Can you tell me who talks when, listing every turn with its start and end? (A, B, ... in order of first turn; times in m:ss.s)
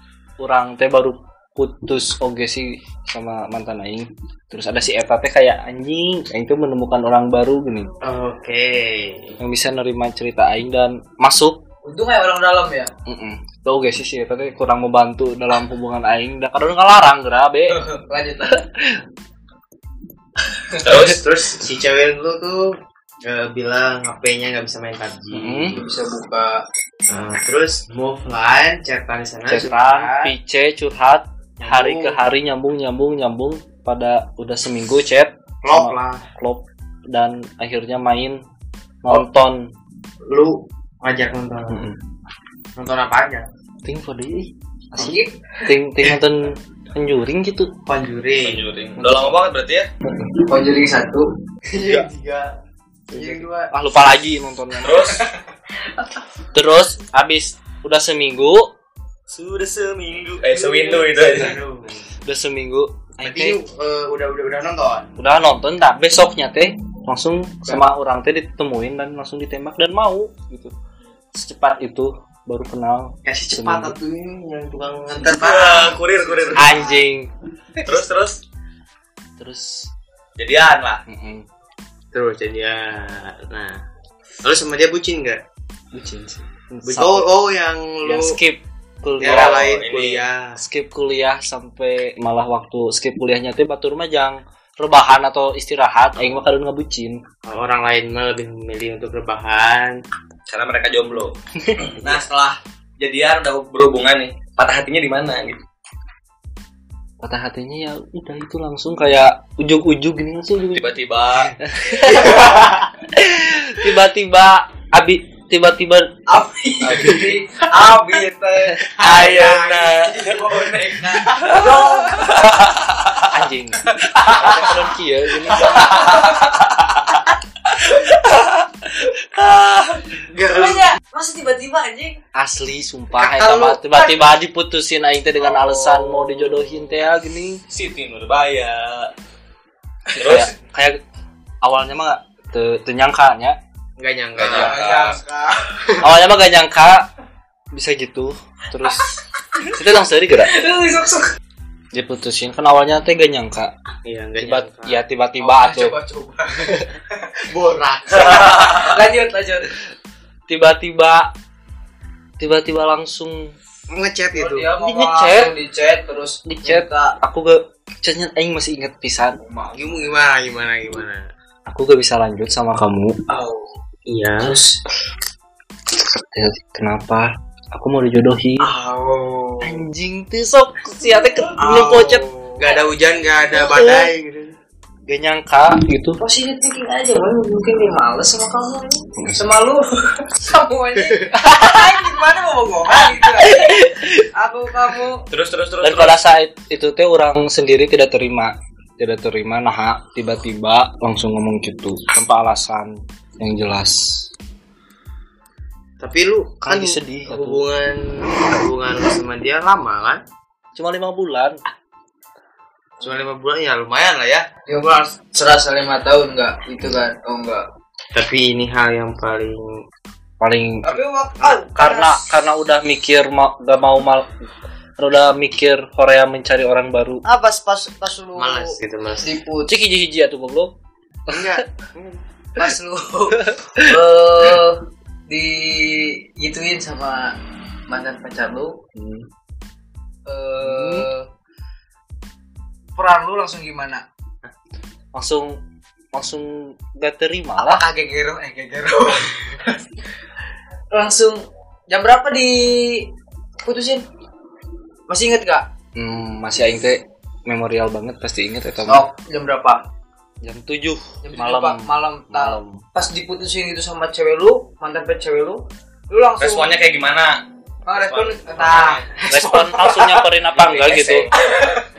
0:00.4-0:07.9 A
0:08.0-0:09.4 B
0:09.4-0:11.6 A
0:11.8-0:12.9 C
0:13.1-0:17.8 A
0:17.7-0:18.6 C
0:18.5-0:19.0 A
0:20.8-0:21.2 D
0:21.0-0:25.8 B
0:25.3-0:25.8 A
0:25.7-0:26.6 C
0:27.1-0:30.3 B
0:29.5-0:38.4 A
0:31.6-0:32.2 B
0:35.6-0:36.2 B
0:39.0-0:39.7 A
0:40.3-0:41.9 B
0:41.7-0:42.0 A
0:42.7-0:43.4 B
0:43.8-0:47.7 A
0:44.9-0:45.6 C
0:47.8-0:48.6 B
0:48.4-0:49.9 D
0:49.0-0:49.3 A
0:50.4-0:51.3 C
0:51.7-0:52.6 B
0:51.8-0:52.1 A
0:53.1-0:53.7 B
0:53.1-0:55.1 A
0:54.8-0:55.2 D
0:56.5-0:58.7 A
0:59.3-1:01.6 D
1:00.5-1:02.0 B
1:02.2-1:03.6 A
1:03.2-1:05.1 B
1:05.2-1:10.7 A
1:11.3-1:13.9 A
1:13.2-1:17.0 B
1:15.2-1:16.8 D
1:16.6-1:17.3 A
1:17.8-1:18.4 D
1:19.4-1:19.9 A
1:20.4-1:21.0 D
1:21.1-1:21.4 A
1:22.1-1:23.8 B
1:24.4-1:25.4 B
1:25.9-1:27.3 A
1:26.8-1:28.4 B
1:28.0-1:29.7 A
1:29.2-1:30.6 B
1:29.2-1:30.2 D
1:30.6-1:37.2 A
1:37.4-1:40.0 B
1:40.5-1:45.6 D
1:47.2-1:50.8 A
1:50.7-1:51.6 D
1:51.6-1:56.2 A
1:56.3-2:02.5 C
1:56.8-1:57.3 D
1:58.9-2:03.3 D
2:00.2-2:00.9 B
2:03.3-2:05.9 A
2:03.9-2:04.7 C
2:05.5-2:06.5 C
2:05.6-2:10.2 D
2:10.3-2:10.9 B
2:10.4-2:12.2 C
2:12.3-2:17.6 A
2:13.2-2:14.1 B
2:15.4-2:16.5 C
2:17.7-2:19.1 D
2:20.1-2:20.5 D
2:20.1-2:21.0 A
2:21.6-2:23.6 A
2:24.0-2:25.2 B
2:24.4-2:25.1 D
2:24.5-2:26.0 C
2:26.0-2:27.1 A
2:27.7-2:29.1 A
2:29.7-2:30.5 A
2:30.4-2:31.3 C
2:31.9-2:33.7 A
2:34.0-2:35.0 B
2:34.4-2:36.0 A
2:35.4-2:37.4 C
2:37.5-2:38.9 B
2:38.2-2:39.7 C
2:38.3-2:38.9 D
2:40.5-2:41.3 A
2:42.4-2:43.6 A
2:43.9-2:44.7 B
2:44.3-2:47.2 C
2:44.8-2:45.5 A
2:46.4-2:49.4 A
2:49.4-2:50.1 C
2:49.7-2:51.3 B
2:51.6-2:53.2 A
2:53.3-2:53.7 C
2:54.1-2:54.7 B
2:55.9-2:58.7 A
2:58.7-2:59.5 C
2:59.6-3:02.2 A
3:01.6-3:04.6 B
3:01.6-3:03.7 C
3:03.6-3:04.1 A
3:05.1-3:06.2 A
3:06.2-3:15.2 C
3:09.2-3:09.5 A
3:11.5-3:11.8 A
3:13.3-3:14.2 A
3:15.3-3:16.2 D
3:15.8-3:24.3 A
3:26.0-3:30.2 B
3:26.6-3:27.6 A
3:30.8-3:31.6 A
3:33.0-3:34.5 B
3:34.7-3:37.6 C
3:38.1-3:39.8 B
3:40.4-3:41.0 A
3:40.8-3:42.2 C
3:41.7-3:44.3 A
3:45.0-3:47.2 A
3:47.2-3:49.7 C
3:48.4-3:49.3 B
3:49.7-3:50.7 A
3:51.3-3:52.2 B
3:51.3-3:51.6 A
3:52.6-3:57.4 C
3:53.4-3:53.9 A
3:57.9-3:58.8 C
3:59.0-3:59.3 A
4:00.2-4:01.3 C
4:00.6-4:01.1 B
4:03.0-4:04.0 C
4:05.1-4:05.6 A
4:06.1-4:07.8 A
4:07.6-4:09.8 C
4:10.9-4:13.1 C
4:13.6-4:14.0 C
4:15.1-4:15.7 C
4:16.0-4:19.0 A
4:18.9-4:19.8 C
4:20.4-4:22.8 A
4:21.2-4:26.8 C
4:26.4-4:29.1 D
4:27.9-4:30.3 C
4:29.3-4:31.3 A
4:30.6-4:31.0 B
4:31.4-4:31.8 C